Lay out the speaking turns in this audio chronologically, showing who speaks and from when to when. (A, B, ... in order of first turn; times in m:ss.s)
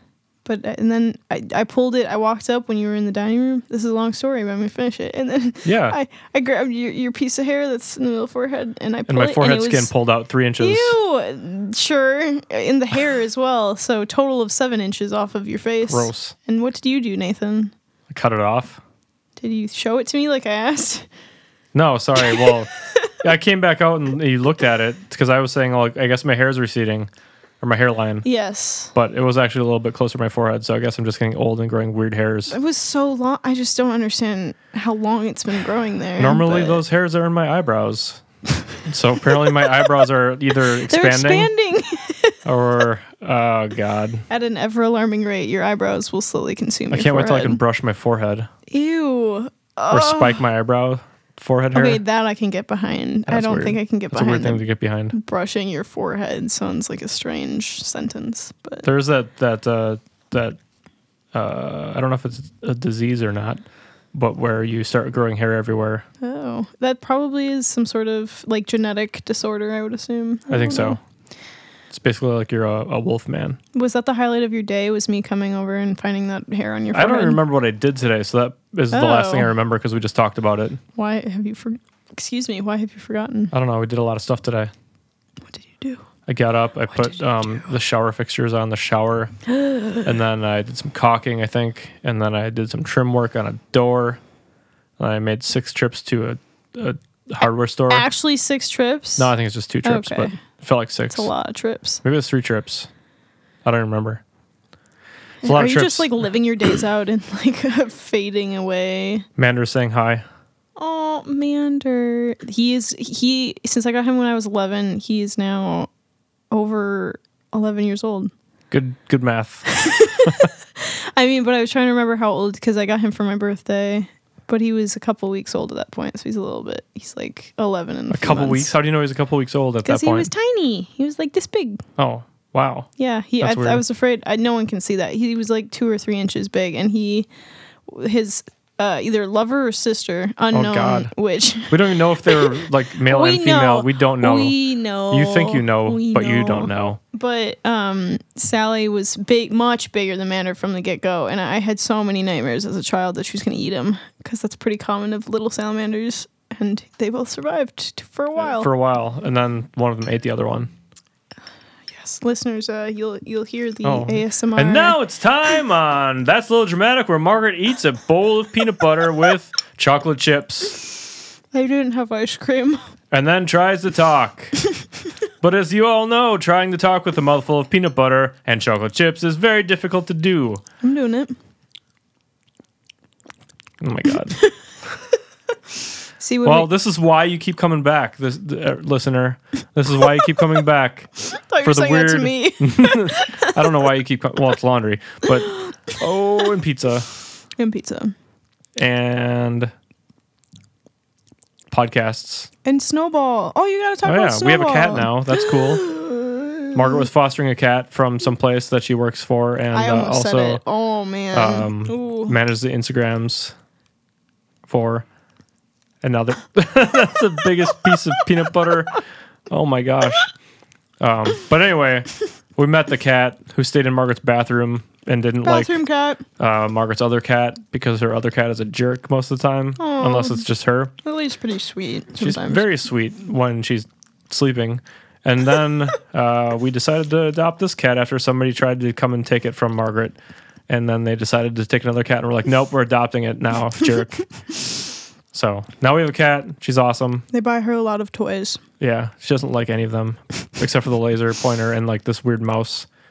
0:00.4-0:09.9 A
0:05.6-0:06.0 B
0:09.1-0:11.0 B
0:10.6-0:17.7 A
0:15.9-0:16.3 B
0:18.1-0:18.8 B
0:19.4-0:21.1 A
0:21.7-0:27.1 B
0:22.2-0:23.1 A
0:27.6-0:28.2 B
0:28.2-0:28.9 A
0:28.9-0:32.6 B
0:32.5-0:36.8 A
0:36.2-0:38.2 B
0:38.8-0:41.5 B
0:40.8-0:42.4 A
0:42.4-0:44.2 B
0:44.3-0:47.6 A
0:46.9-0:48.5 B
0:48.7-0:50.4 A
0:49.9-0:52.0 B
0:51.8-0:58.9 A
0:53.3-0:55.1 B
0:58.8-1:00.6 B
1:01.3-1:03.6 B
1:04.1-1:06.0 B
1:06.2-1:11.0 A
1:10.5-1:11.0 B
1:11.9-1:13.6 B
1:13.7-1:17.4 A
1:16.9-1:20.8 B
1:18.9-1:19.5 A
1:21.0-1:23.5 A
1:23.5-1:24.7 B
1:25.5-1:26.0 A
1:26.3-1:29.3 B
1:27.0-1:27.2 A
1:29.5-1:30.1 A
1:30.0-1:34.2 B
1:35.0-1:38.1 B
1:37.9-1:40.4 A
1:39.2-1:41.3 B
1:41.1-1:42.0 A
1:42.0-1:42.9 B
1:43.6-1:44.2 B
1:45.4-1:49.3 A
1:45.4-1:46.1 B
1:49.4-1:50.2 B
1:50.8-1:55.9 A
1:56.5-1:58.3 A
1:58.7-1:59.7 B
1:59.7-2:08.7 A
2:00.2-2:00.5 B
2:08.1-2:10.3 B
2:09.8-2:11.8 A
2:12.0-2:12.9 B
2:13.0-2:17.3 A
2:13.4-2:13.8 B
2:17.9-2:38.7 A
2:20.5-2:21.1 B
2:21.7-2:24.6 B
2:25.1-2:27.0 B
2:38.4-2:40.7 B
2:41.9-2:45.0 A
2:43.8-2:50.8 B
2:51.5-2:52.8 A
2:53.1-2:54.6 B
2:55.4-3:00.6 B
3:00.8-3:01.4 A
3:03.8-3:04.4 B
3:06.2-3:06.7 A
3:06.4-3:17.1 B
3:11.3-3:13.6 A
3:17.6-3:18.2 A
3:18.8-3:19.7 B
3:21.7-3:22.5 B
3:22.6-3:27.0 A
3:24.0-3:25.9 B
3:26.7-3:30.6 B
3:29.7-3:32.4 A
3:31.3-3:33.5 B
3:34.7-3:35.1 B
3:36.0-3:40.3 B
3:41.0-3:45.8 B
3:45.4-3:46.2 A
3:46.4-3:50.9 B
3:49.8-3:50.4 A
3:51.0-3:52.6 A
3:52.2-4:00.2 B
4:00.7-4:04.2 B
4:05.3-4:07.2 B
4:07.3-4:08.6 A
4:08.8-4:12.9 B